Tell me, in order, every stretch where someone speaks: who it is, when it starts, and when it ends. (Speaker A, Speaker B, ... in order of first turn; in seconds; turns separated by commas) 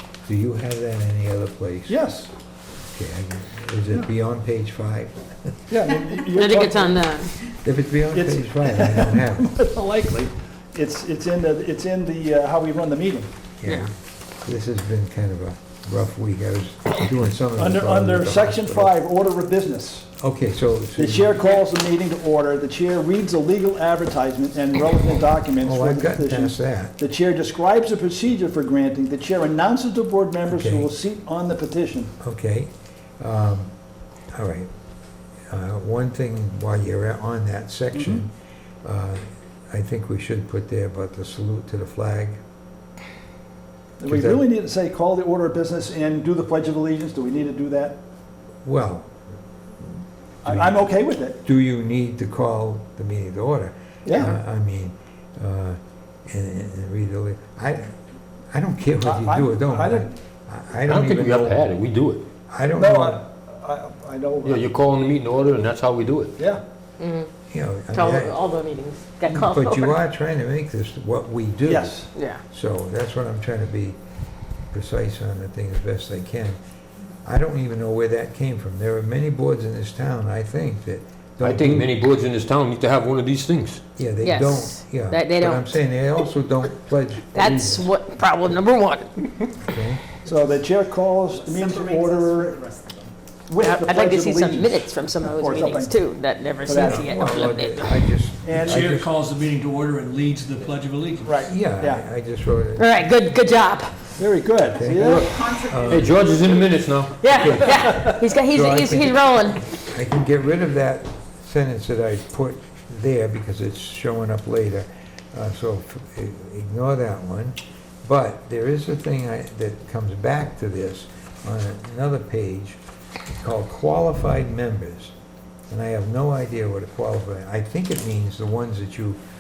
Speaker A: 0.3-2.0, Speaker B: 1.9-2.3, Speaker A: 2.9-5.4, Speaker B: 5.7-7.0, Speaker C: 6.3-7.3, Speaker A: 7.5-9.5, Speaker B: 8.1-13.3, Speaker A: 13.6-19.0, Speaker C: 13.7-13.9, Speaker B: 17.6-20.1, Speaker A: 20.2-21.4, Speaker B: 21.0-32.1, Speaker A: 25.6-26.9, Speaker A: 30.5-30.9, Speaker A: 32.2-33.7, Speaker A: 34.3-34.7, Speaker A: 35.5-38.3, Speaker B: 37.9-38.3, Speaker A: 38.8-42.4, Speaker B: 44.0-48.0, Speaker A: 44.1-44.5, Speaker A: 48.6-49.2, Speaker A: 49.8-50.9, Speaker B: 50.4-51.4, Speaker A: 51.4-58.0, Speaker B: 54.0-54.4, Speaker A: 58.5-61.7, Speaker B: 59.0-60.1, Speaker D: 60.9-62.3, Speaker A: 62.5-63.2, Speaker B: 62.7-64.7, Speaker D: 64.4-66.4, Speaker B: 66.4-66.6, Speaker C: 67.0-67.3, Speaker A: 67.5-68.4, Speaker C: 67.9-70.0, Speaker A: 69.3-74.0, Speaker B: 71.7-72.1, Speaker C: 72.2-72.4, Speaker A: 74.7-76.6, Speaker A: 77.2-81.9, Speaker D: 81.4-83.8, Speaker A: 84.0-87.9, Speaker C: 84.2-85.8, Speaker C: 87.3-89.5, Speaker A: 89.6-90.0, Speaker B: 90.2-92.7, Speaker E: 91.3-93.1, Speaker B: 93.5-96.0, Speaker C: 93.6-98.0, Speaker B: 96.7-97.1, Speaker A: 96.7-99.2, Speaker B: 98.4-98.9, Speaker E: 98.5-101.4, Speaker B: 101.2-102.0, Speaker A: 101.4-103.0, Speaker C: 102.8-104.0, Speaker B: 104.2-105.5, Speaker A: 104.8-106.2, Speaker D: 105.0-107.2, Speaker E: 105.5-105.9, Speaker C: 107.2-109.6, Speaker A: 107.2-109.2, Speaker A: 109.8-125.1, Speaker A: 125.7-129.2